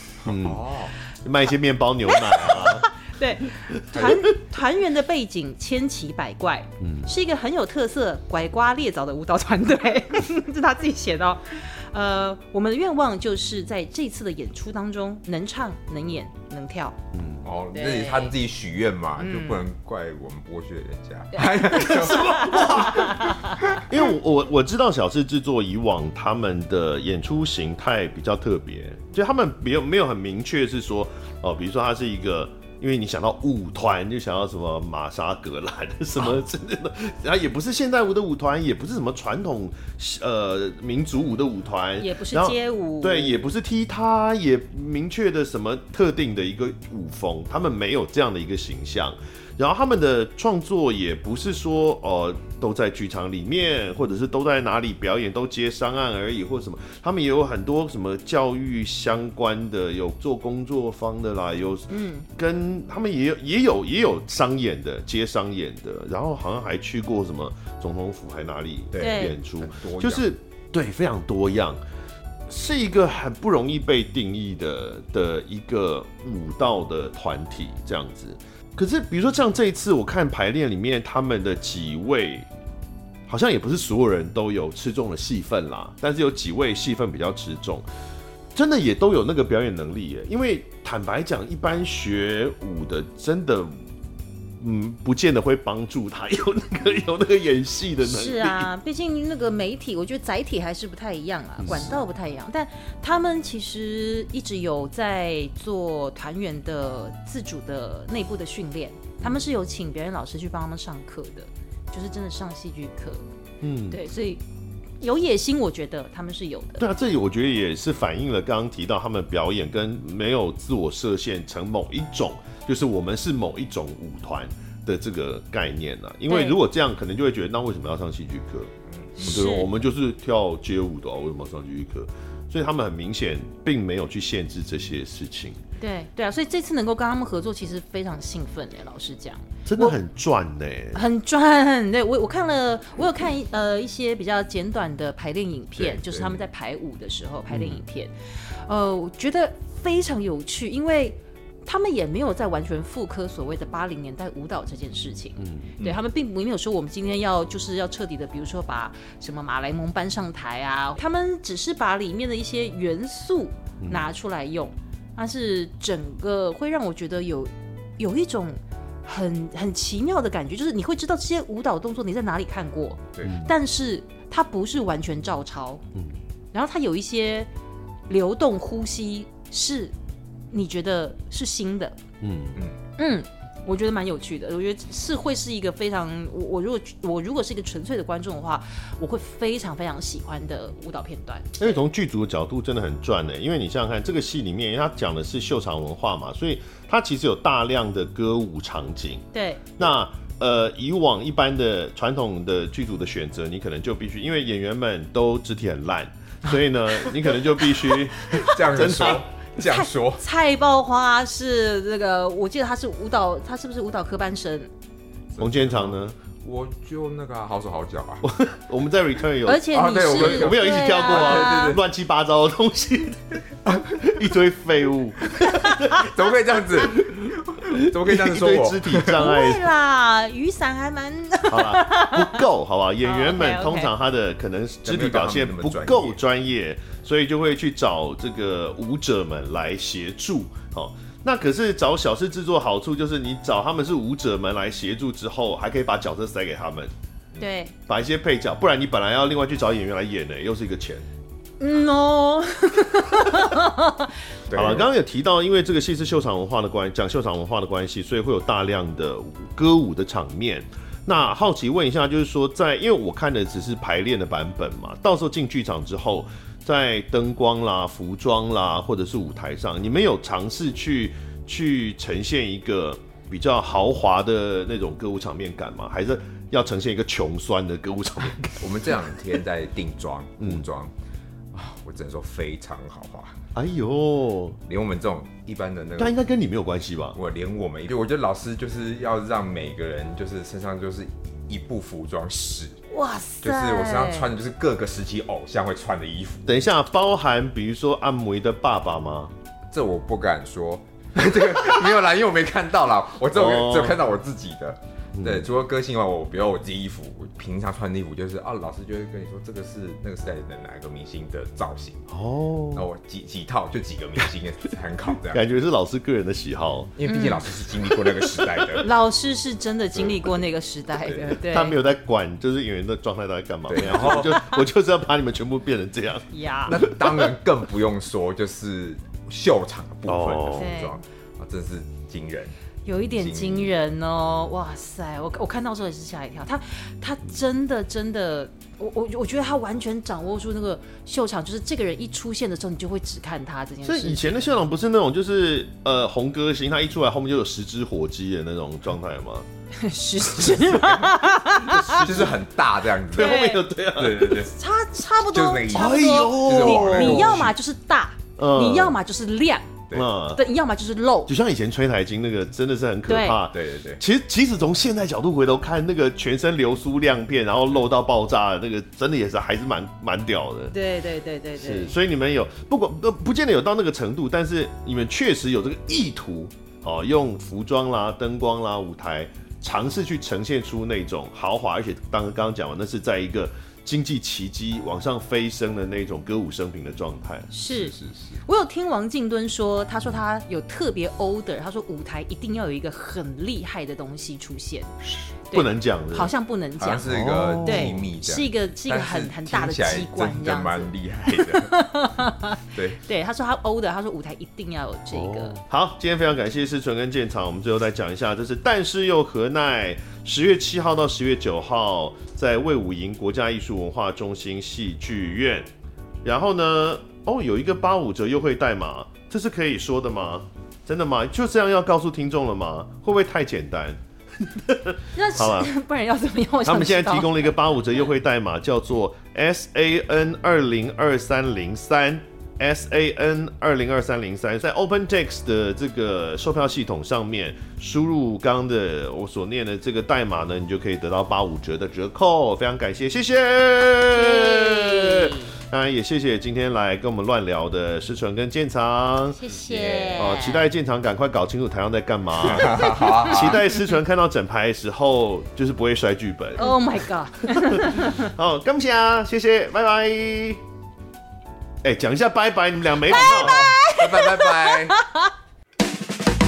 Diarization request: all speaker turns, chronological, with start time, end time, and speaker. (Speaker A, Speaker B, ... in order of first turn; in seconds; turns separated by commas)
Speaker A: 0.2-0.9, Speaker B: 0.2-0.6, Speaker B: 1.2-2.9, Speaker C: 2.1-17.0, Speaker A: 3.9-4.2, Speaker B: 6.8-7.1, Speaker B: 17.1-17.5, Speaker A: 17.4-23.9, Speaker C: 17.7-18.3, Speaker C: 19.2-19.6, Speaker C: 21.4-23.8, Speaker B: 21.8-71.8, Speaker C: 42.0-43.4, Speaker C: 61.9-62.3, Speaker A: 68.9-70.3, Speaker C: 69.0-69.3, Speaker B: 72.5-82.5, Speaker B: 83.3-87.8, Speaker B: 88.5-93.7, Speaker B: 94.6-98.7, Speaker C: 98.0-113.2, Speaker B: 101.6-102.0, Speaker B: 113.6-114.0, Speaker C: 113.9-114.4, Speaker C: 115.0-116.8, Speaker B: 116.8-135.6, Speaker C: 126.3-126.6, Speaker A: 128.9-129.3, Speaker C: 129.2-129.7, Speaker C: 135.8-140.0, Speaker B: 139.7-141.0, Speaker C: 140.9-175.8, Speaker A: 145.7-146.4, Speaker B: 147.5-147.8, Speaker B: 155.4-155.7, Speaker B: 163.8-164.1, Speaker B: 173.2-173.5, Speaker C: 176.5-177.5, Speaker C: 178.1-179.9, Speaker C: 180.5-182.0, Speaker B: 182.2-182.6, Speaker C: 183.0-191.8, Speaker B: 191.6-199.2, Speaker C: 199.3-199.6, Speaker B: 199.8-209.2, Speaker A: 207.7-210.2, Speaker C: 209.6-214.7, Speaker A: 215.3-218.3, Speaker B: 215.4-216.2, Speaker B: 218.2-223.4, Speaker C: 219.4-221.8, Speaker A: 219.7-221.8, Speaker A: 223.6-224.1, Speaker B: 224.0-226.1, Speaker A: 225.4-229.3, Speaker C: 225.6-226.0, Speaker B: 226.9-229.7, Speaker C: 229.1-232.4, Speaker B: 231.5-246.9, Speaker C: 233.0-233.9, Speaker A: 234.8-236.2, Speaker C: 247.4-247.7, Speaker B: 247.9-251.1, Speaker C: 251.6-254.1, Speaker A: 254.5-254.9, Speaker B: 254.5-278.6, Speaker A: 278.5-280.9, Speaker B: 280.4-280.7, Speaker A: 281.5-283.4, Speaker B: 283.6-284.6, Speaker A: 284.7-286.2, Speaker B: 286.0-287.2, Speaker A: 287.1-292.8, Speaker C: 292.9-294.3, Speaker A: 293.4-296.5, Speaker B: 296.4-299.3, Speaker A: 299.7-312.1, Speaker B: 303.3-304.0, Speaker B: 305.2-305.5, Speaker B: 312.1-312.9, Speaker A: 312.7-315.4, Speaker B: 315.3-316.9, Speaker A: 317.0-318.9, Speaker C: 317.1-317.5, Speaker C: 318.2-321.8, Speaker A: 319.9-320.3, Speaker A: 321.0-321.4, Speaker B: 321.4-327.3, Speaker A: 323.7-324.4, Speaker C: 324.2-324.6, Speaker C: 326.3-326.8, Speaker A: 326.7-332.6, Speaker B: 330.1-330.7, Speaker C: 330.5-331.0, Speaker C: 332.9-344.4, Speaker A: 333.1-333.7, Speaker B: 343.9-349.4, Speaker C: 349.7-352.3, Speaker A: 350.7-351.1, Speaker B: 351.7-352.3, Speaker A: 351.9-353.4, Speaker B: 353.1-354.5, Speaker C: 353.2-353.6, Speaker A: 353.9-354.6, Speaker C: 354.4-361.3, Speaker A: 355.3-357.4, Speaker B: 355.7-357.6, Speaker B: 358.4-359.0, Speaker B: 359.9-360.4, Speaker B: 361.3-370.7, Speaker C: 363.1-363.4, Speaker A: 363.5-364.0, Speaker C: 370.7-371.9, Speaker B: 371.6-387.5, Speaker C: 387.5-394.9, Speaker A: 387.7-388.4, Speaker C: 395.5-397.1, Speaker B: 395.5-396.3, Speaker A: 396.8-401.7, Speaker B: 397.1-398.1, Speaker C: 397.6-405.6, Speaker A: 402.7-403.0, Speaker B: 405.1-415.7, Speaker B: 416.2-425.7, Speaker C: 425.1-428.0, Speaker B: 426.6-449.4, Speaker C: 444.1-445.5, Speaker C: 449.4-450.7, Speaker A: 449.7-450.1, Speaker B: 450.1-456.7, Speaker A: 452.4-453.7, Speaker C: 452.7-453.3, Speaker C: 456.6-458.3, Speaker B: 457.4-460.6, Speaker B: 461.8-463.6, Speaker C: 463.1-465.3, Speaker A: 463.1-465.0